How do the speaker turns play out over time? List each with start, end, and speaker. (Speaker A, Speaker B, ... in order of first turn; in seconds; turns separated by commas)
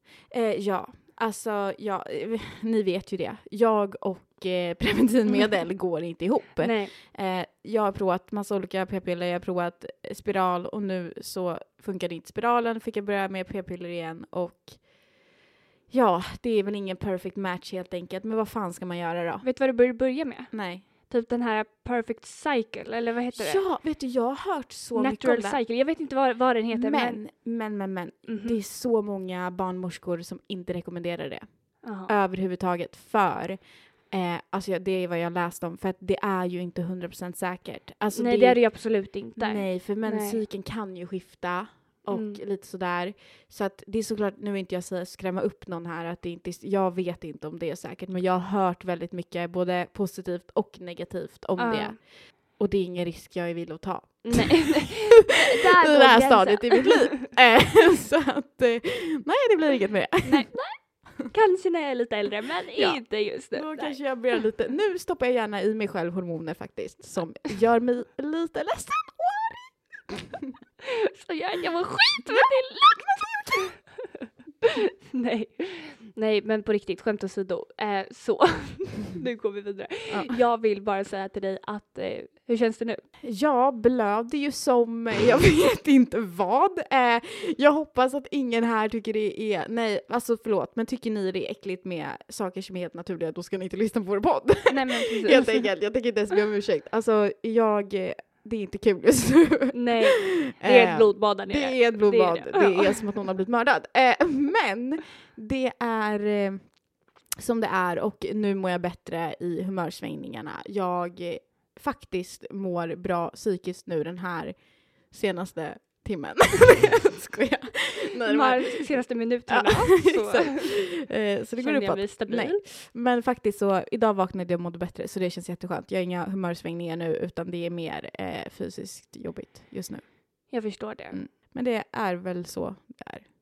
Speaker A: 0.3-14.9, Speaker B: 6.6-6.9, Speaker A: 15.9-19.5, Speaker B: 19.4-23.6, Speaker A: 20.5-20.8, Speaker A: 23.3-25.6, Speaker B: 24.9-27.2, Speaker A: 26.7-31.5, Speaker B: 28.3-28.6, Speaker B: 31.8-32.1, Speaker A: 32.0-38.6, Speaker B: 38.1-40.4, Speaker A: 39.4-60.5, Speaker B: 42.1-42.4, Speaker B: 51.6-52.0, Speaker B: 54.2-57.3, Speaker B: 60.2-64.0, Speaker A: 62.8-70.5, Speaker B: 70.8-73.8, Speaker B: 74.6-83.0, Speaker A: 80.1-80.4, Speaker A: 83.2-106.8, Speaker B: 94.7-95.7, Speaker B: 99.7-103.0, Speaker A: 107.4-118.9, Speaker B: 118.2-120.8, Speaker A: 119.5-130.5, Speaker B: 121.6-122.6, Speaker B: 130.5-131.2, Speaker A: 131.1-133.2